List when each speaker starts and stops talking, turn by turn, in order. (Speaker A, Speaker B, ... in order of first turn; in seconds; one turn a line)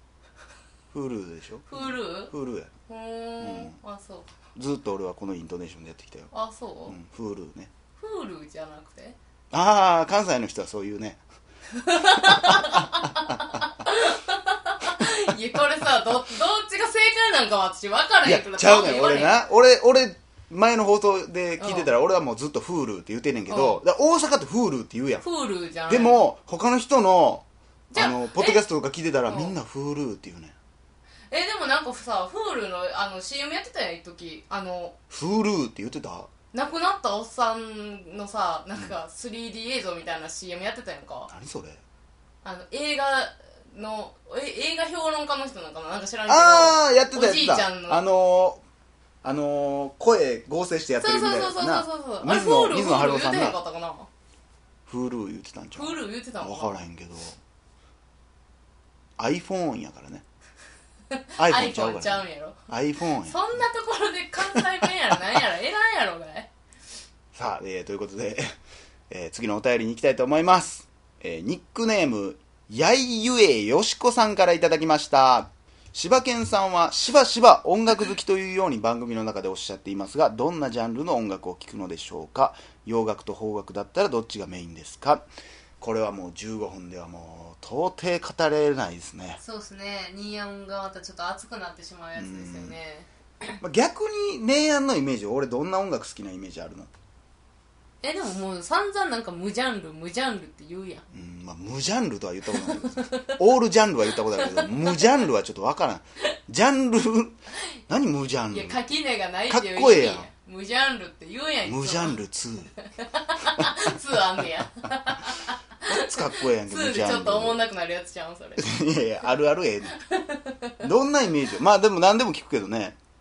Speaker A: 0.9-2.7
Speaker B: 1.7-2.3
Speaker B: 2.9-4.3
Speaker A: 3.4-3.8
Speaker A: 4.5-6.3
Speaker B: 6.3-7.0
Speaker A: 6.9-7.7
Speaker B: 8.0-9.2
Speaker A: 9.5-11.2
Speaker B: 11.7-19.4
Speaker A: 12.5-12.9
Speaker A: 18.2-25.2
Speaker B: 21.6-21.9
Speaker B: 23.5-23.8
Speaker B: 25.2-26.2
Speaker A: 25.9-30.6
Speaker B: 27.9-28.6
Speaker B: 29.3-29.6
Speaker B: 31.3-35.0
Speaker A: 35.1-36.3
Speaker B: 36.5-41.3
Speaker A: 41.3-41.8
Speaker B: 42.4-48.1
Speaker A: 46.3-48.6
Speaker A: 49.2-53.6
Speaker B: 51.0-54.1
Speaker A: 54.9-57.4
Speaker B: 55.8-56.8
Speaker A: 59.2-60.2
Speaker B: 61.1-62.6
Speaker A: 61.4-63.6
Speaker B: 63.2-66.5
Speaker A: 64.4-64.6
Speaker A: 67.3-68.5
Speaker A: 69.1-85.2
Speaker A: 85.8-89.4
Speaker B: 89.4-93.1
Speaker A: 92.2-92.8
Speaker A: 93.5-96.9
Speaker B: 98.0-101.0
Speaker A: 101.1-108.8
Speaker B: 102.5-103.4
Speaker B: 104.4-105.1
Speaker B: 108.5-112.2
Speaker A: 109.5-110.3
Speaker A: 111.6-112.7
Speaker B: 112.8-118.7
Speaker A: 115.9-117.6
Speaker A: 118.6-120.0
Speaker B: 120.0-120.7
Speaker A: 120.8-123.0